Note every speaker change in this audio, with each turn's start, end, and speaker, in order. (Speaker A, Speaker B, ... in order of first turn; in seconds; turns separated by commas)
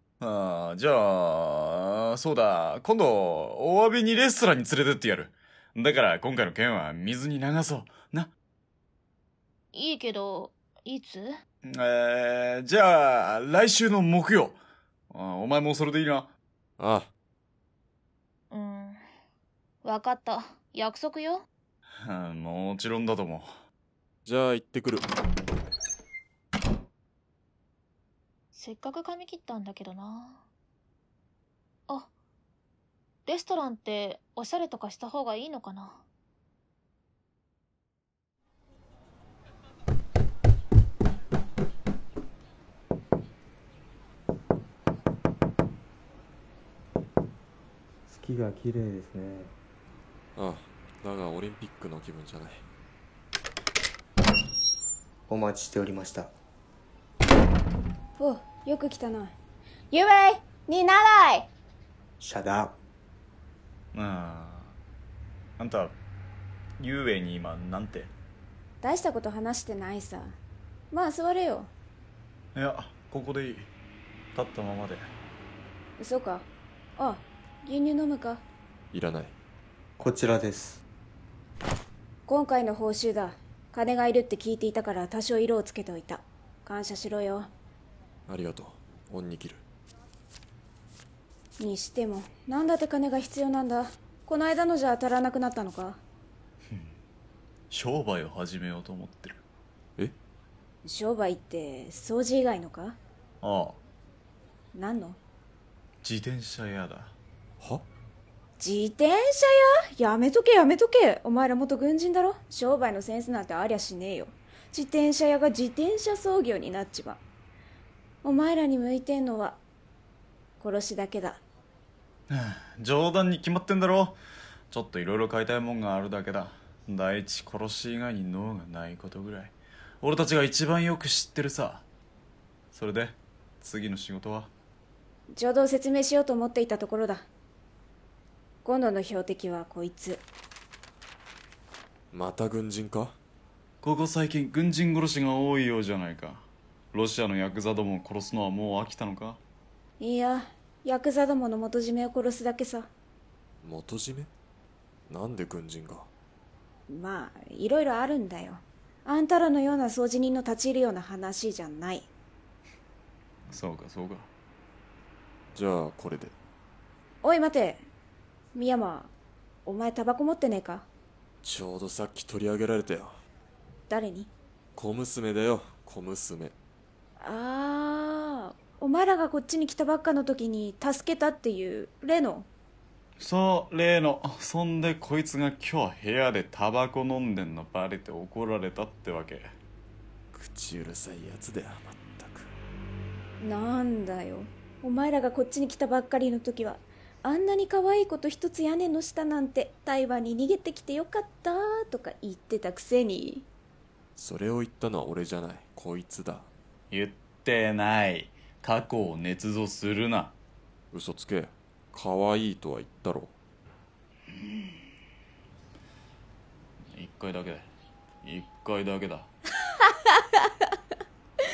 Speaker A: 0.2-8.3, Speaker B: 9.7-11.4, Speaker A: 11.6-14.6, Speaker A: 15.1-16.3, Speaker C: 16.8-17.1, Speaker B: 18.5-19.0, Speaker B: 19.8-21.4, Speaker A: 22.0-23.5, Speaker C: 24.2-25.1, Speaker B: 28.5-30.4, Speaker B: 33.3-36.0, Speaker D: 48.1-49.5, Speaker C: 50.4-52.6, Speaker D: 55.3-56.3, Speaker E: 58.2-59.4, Speaker E: 59.9-61.5, Speaker D: 62.2-62.8, Speaker A: 63.9-64.8, Speaker A: 65.6-66.0, Speaker A: 66.8-68.1, Speaker E: 68.8-70.4, Speaker E: 70.9-71.7, Speaker A: 72.5-73.7, Speaker A: 74.3-75.0, Speaker E: 76.0-78.4, Speaker C: 78.9-79.4, Speaker D: 80.0-80.8, Speaker E: 82.3-87.5, Speaker C: 88.3-89.6, Speaker E: 91.6-96.0, Speaker A: 97.7-99.4, Speaker E: 100.8-103.0, Speaker A: 103.4-103.8, Speaker E: 104.7-105.2, Speaker A: 106.0-107.2, Speaker C: 107.6-107.9, Speaker E: 108.6-117.2, Speaker E: 118.2-119.6, Speaker E: 120.6-121.4, Speaker A: 122.3-124.2, Speaker A: 124.7-131.9, Speaker A: 132.7-134.5, Speaker E: 135.3-137.3, Speaker E: 138.6-140.2, Speaker C: 142.1-143.2, Speaker A: 143.8-149.4, Speaker E: 150.0-152.9, Speaker C: 153.6-154.3, Speaker C: 155.1-156.1, Speaker E: 156.9-162.1, Speaker A: 163.5-164.3, Speaker C: 165.5-166.3, Speaker E: 167.2-167.9, Speaker E: 168.5-169.1, Speaker E: 169.7-170.9, Speaker C: 171.4-173.2, Speaker E: 173.9-174.3, Speaker C: 174.8-176.6, Speaker E: 177.2-182.5, Speaker A: 183.2-189.5, Speaker C: 190.3-192.5, Speaker E: 193.4-203.5, Speaker C: 204.2-206.5, Speaker A: 206.9-210.4, Speaker C: 210.9-213.3, Speaker A: 214.3-214.9, Speaker A: 216.9-217.7, Speaker A: 218.2-219.3, Speaker E: 219.8-220.7